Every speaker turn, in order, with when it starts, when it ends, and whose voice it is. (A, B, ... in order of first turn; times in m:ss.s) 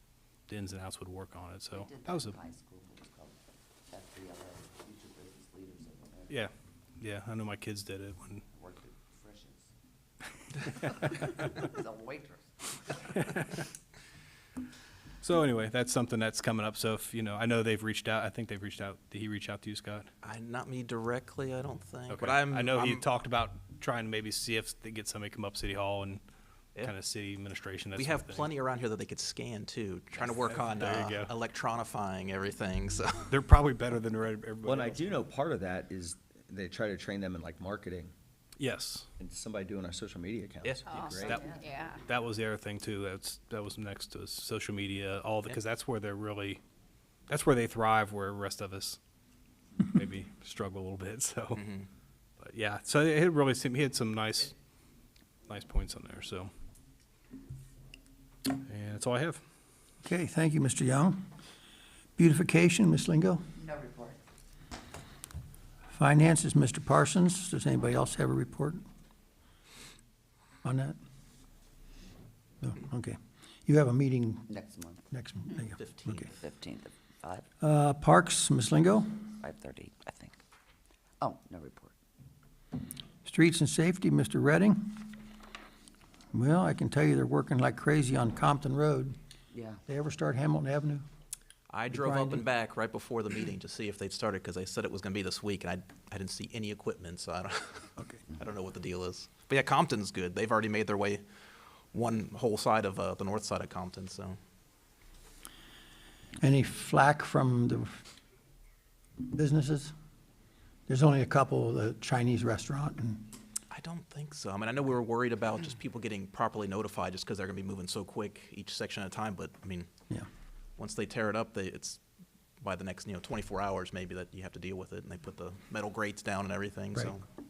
0:00.5-0:02.4 A
0:01.7-0:03.4 B
0:03.9-0:06.4 B
0:06.3-0:08.4 A
0:08.5-0:09.7 B
0:10.7-0:13.2 B
0:13.2-0:13.6 A
0:15.2-0:20.1 A
0:20.2-0:23.0 C
0:22.1-0:26.2 A
0:26.8-0:28.5 A
0:28.0-0:33.3 C
0:30.3-0:31.3 A
0:33.3-0:35.2 A
0:34.6-0:38.1 D
0:38.6-0:39.1 A
0:39.2-0:41.5 D
0:40.6-0:46.6 A
0:47.3-0:49.0 A
0:49.8-0:51.6 A
0:51.5-0:51.9 C
0:52.4-0:54.5 A
0:55.5-0:56.5 A
0:58.5-0:59.4 A
1:00.0-1:01.2 E
1:02.2-1:03.4 E
1:03.6-1:04.2 B
1:05.9-1:08.8 E
1:10.6-1:11.0 E
1:12.6-1:13.2 E
1:13.7-1:14.5 E
1:14.5-1:15.0 B
1:15.1-1:16.3 E
1:15.8-1:16.3 C
1:16.3-1:17.5 B
1:17.6-1:19.2 E
1:19.4-1:20.4 B
1:21.2-1:22.0 B
1:23.2-1:25.1 E
1:26.3-1:29.2 E
1:29.5-1:29.8 B
1:29.9-1:31.0 E
1:31.7-1:41.2 C
1:31.9-1:32.4 E
1:38.0-1:38.2 E
1:41.9-1:44.4 C
1:46.4-1:48.0 E
1:49.3-1:49.9 E
1:50.9-1:53.3 E
1:53.7-1:59.9 C
2:00.8-2:02.0 C
2:02.6-2:07.2 C